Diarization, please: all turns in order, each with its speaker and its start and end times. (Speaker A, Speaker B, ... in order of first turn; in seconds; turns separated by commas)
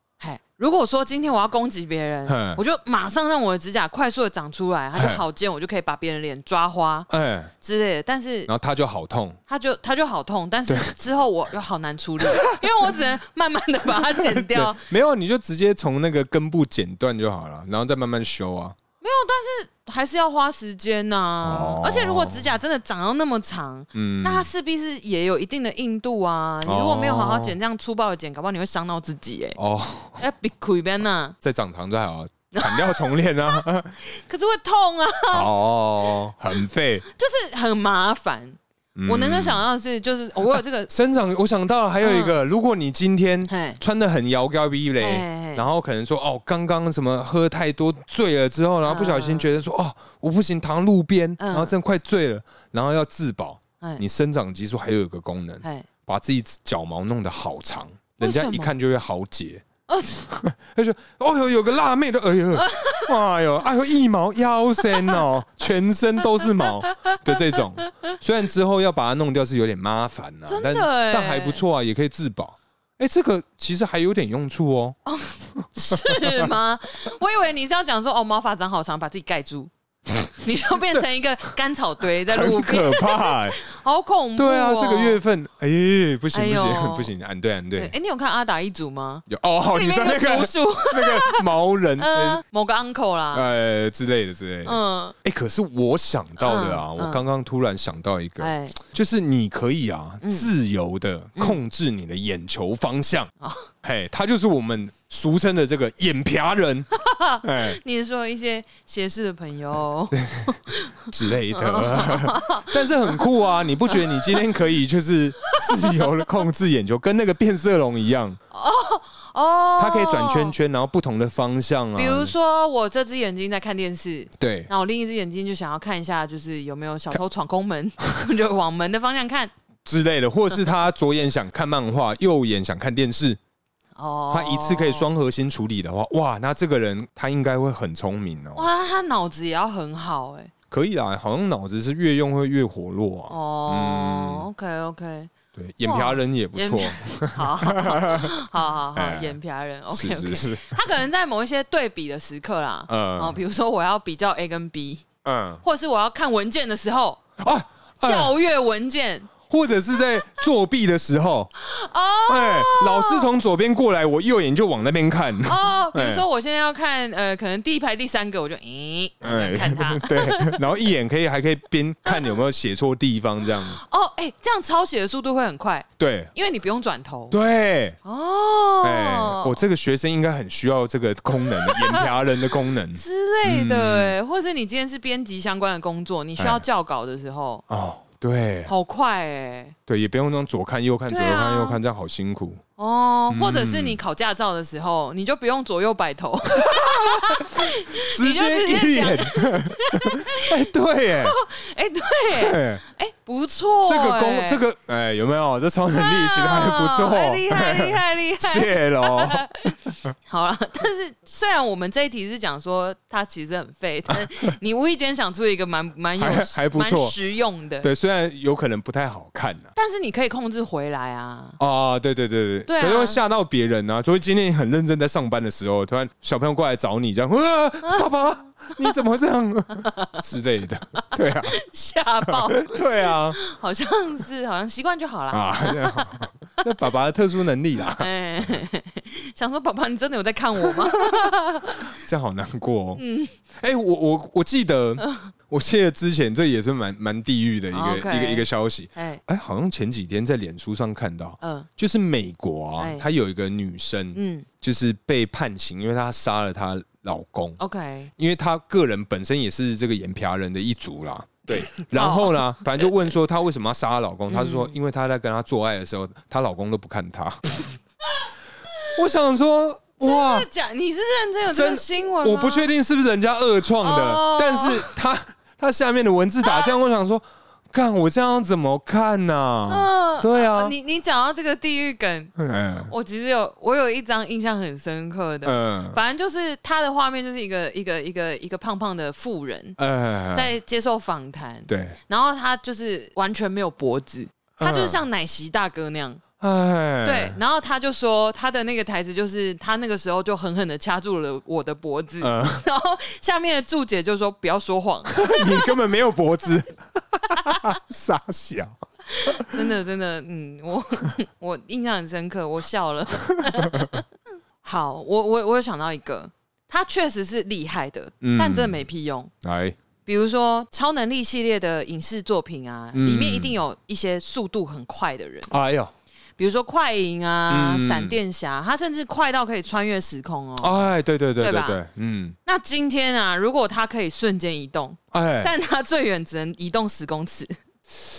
Speaker A: 0.2-7.1, Speaker B: 2.3-2.6, Speaker B: 4.9-5.2, Speaker B: 7.1-7.5, Speaker A: 7.6-8.5, Speaker B: 8.5-9.4, Speaker A: 9.5-14.9, Speaker B: 12.2-12.7, Speaker B: 13.9-18.8, Speaker A: 19.0-29.6, Speaker B: 21.4-22.5, Speaker B: 23.9-24.5, Speaker B: 26.6-27.6, Speaker B: 29.6-30.2, Speaker A: 30.2-31.4, Speaker B: 31.4-34.0, Speaker A: 32.5-35.5, Speaker B: 35.3-37.0, Speaker A: 37.1-40.9, Speaker B: 38.9-39.6, Speaker B: 40.5-59.6, Speaker A: 42.0-42.4, Speaker A: 43.5-43.8, Speaker A: 45.0-45.6, Speaker A: 48.9-49.5, Speaker A: 51.4-51.7, Speaker A: 58.2-58.7, Speaker A: 59.9-60.2, Speaker B: 60.2-75.0, Speaker A: 62.5-63.1, Speaker A: 64.8-65.2, Speaker A: 66.6-68.1, Speaker A: 70.5-71.6, Speaker A: 75.0-85.2, Speaker B: 75.6-76.4, Speaker B: 82.3-83.6, Speaker B: 84.4-87.9, Speaker A: 86.3-87.1, Speaker A: 87.7-93.5, Speaker B: 89.3-92.4, Speaker B: 93.3-103.3, Speaker A: 94.6-95.2, Speaker A: 96.4-97.2, Speaker A: 98.4-98.8, Speaker A: 100.2-100.5, Speaker A: 103.4-103.7, Speaker B: 103.8-106.9, Speaker A: 107.0-113.2, Speaker B: 107.4-107.8, Speaker B: 110.1-118.4, Speaker A: 113.9-114.4, Speaker A: 115.5-116.0, Speaker A: 118.5-120.5, Speaker B: 119.8-122.3, Speaker A: 121.9-129.5, Speaker B: 124.4-124.7, Speaker B: 129.8-133.4, Speaker A: 133.9-135.1, Speaker B: 134.3-138.7, Speaker A: 138.5-140.5, Speaker B: 140.7-144.4, Speaker A: 143.3-145.3, Speaker B: 145.5-148.3, Speaker A: 145.8-155.1, Speaker B: 148.9-149.3, Speaker B: 149.9-150.8, Speaker B: 152.9-153.4, Speaker B: 155.2-155.6, Speaker A: 155.6-157.2, Speaker B: 157.4-158.3, Speaker A: 158.0-159.3, Speaker B: 159.4-161.5, Speaker A: 161.6-163.3, Speaker B: 162.3-166.2, Speaker A: 165.4-170.6, Speaker B: 169.2-173.8, Speaker A: 172.1-172.3, Speaker A: 173.6-177.4, Speaker B: 176.0-176.3, Speaker B: 177.3-178.0, Speaker A: 178.0-179.6, Speaker B: 178.8-184.2, Speaker A: 181.4-182.1, Speaker A: 182.9-187.6, Speaker B: 186.4-186.6, Speaker B: 187.7-188.7, Speaker A: 188.7-189.7, Speaker B: 189.9-192.6, Speaker A: 191.1-191.8, Speaker A: 192.8-200.6, Speaker B: 193.3-194.0, Speaker B: 196.6-201.4, Speaker A: 201.2-204.6, Speaker B: 202.3-202.8, Speaker B: 203.8-209.4, Speaker A: 205.9-217.9, Speaker B: 216.2-217.2, Speaker B: 217.8-219.7, Speaker A: 219.8-221.6, Speaker B: 221.6-231.6, Speaker A: 222.7-223.2, Speaker A: 229.7-230.2, Speaker A: 231.0-236.2, Speaker B: 232.2-233.4, Speaker B: 235.3-238.1, Speaker A: 237.9-241.9, Speaker B: 240.6-241.3, Speaker B: 241.9-243.0, Speaker A: 242.9-243.4, Speaker B: 243.6-257.6, Speaker A: 245.0-245.3, Speaker A: 247.7-249.2, Speaker A: 251.4-251.7, Speaker A: 252.8-253.1, Speaker A: 254.1-254.5, Speaker A: 257.6-258.1, Speaker B: 258.2-267.6, Speaker A: 261.7-262.9, Speaker A: 264.3-264.7, Speaker A: 268.1-268.9, Speaker B: 268.9-270.5, Speaker A: 270.0-272.7, Speaker B: 271.5-280.7, Speaker A: 273.8-274.9, Speaker A: 276.4-276.7, Speaker A: 279.7-282.3, Speaker B: 282.4-282.9, Speaker A: 282.9-289.8, Speaker B: 285.4-286.0, Speaker B: 289.8-290.5, Speaker A: 290.3-296.2, Speaker B: 291.7-292.0, Speaker B: 294.6-295.0, Speaker B: 296.4-297.4, Speaker A: 297.0-305.7, Speaker B: 302.2-302.6, Speaker B: 305.1-309.6, Speaker A: 307.3-307.7, Speaker A: 309.1-314.0, Speaker B: 313.4-313.9, Speaker A: 314.6-319.3, Speaker B: 318.2-318.8, Speaker B: 319.4-319.8, Speaker A: 320.0-325.5, Speaker B: 322.9-323.6, Speaker B: 325.5-325.9, Speaker A: 326.4-330.9, Speaker B: 327.5-328.2, Speaker B: 330.6-332.4, Speaker A: 331.4-331.8, Speaker A: 332.4-337.5, Speaker B: 335.1-335.5